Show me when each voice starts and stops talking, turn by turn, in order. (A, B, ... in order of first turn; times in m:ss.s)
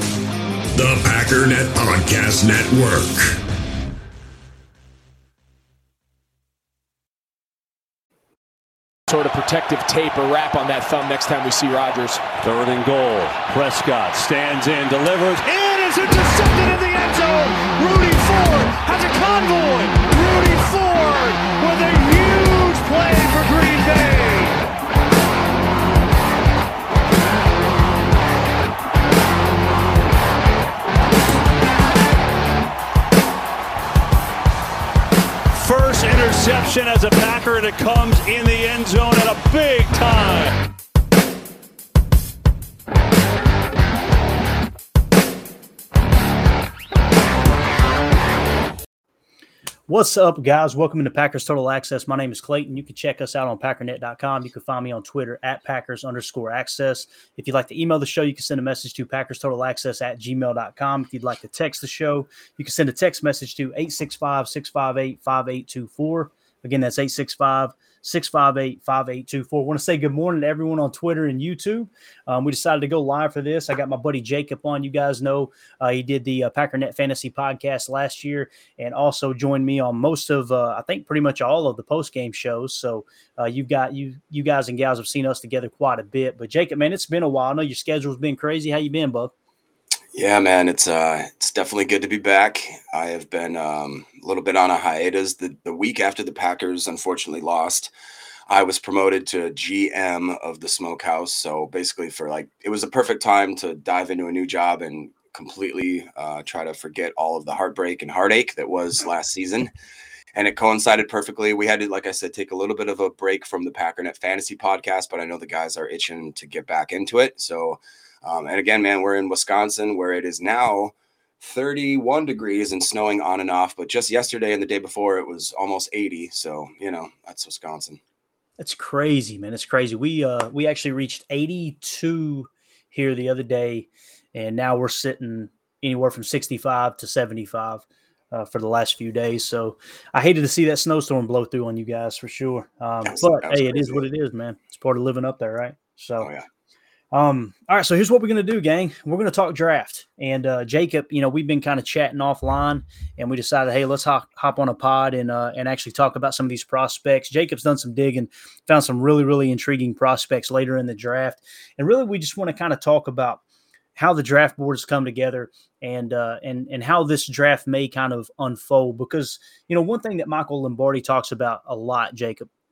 0:00.8-0:03.4 A
0:09.1-0:12.3 B
0:12.4-0:24.6 C
0:35.5-0:40.6 C
0:49.9-1:29.3 D
1:30.1-1:37.9 E
1:38.5-1:49.7 E
1:50.4-2:08.0 E
2:08.6-2:26.3 D
2:23.0-2:24.1 E
2:26.2-2:26.5 E
2:27.1-2:43.4 D
2:44.0-2:52.5 D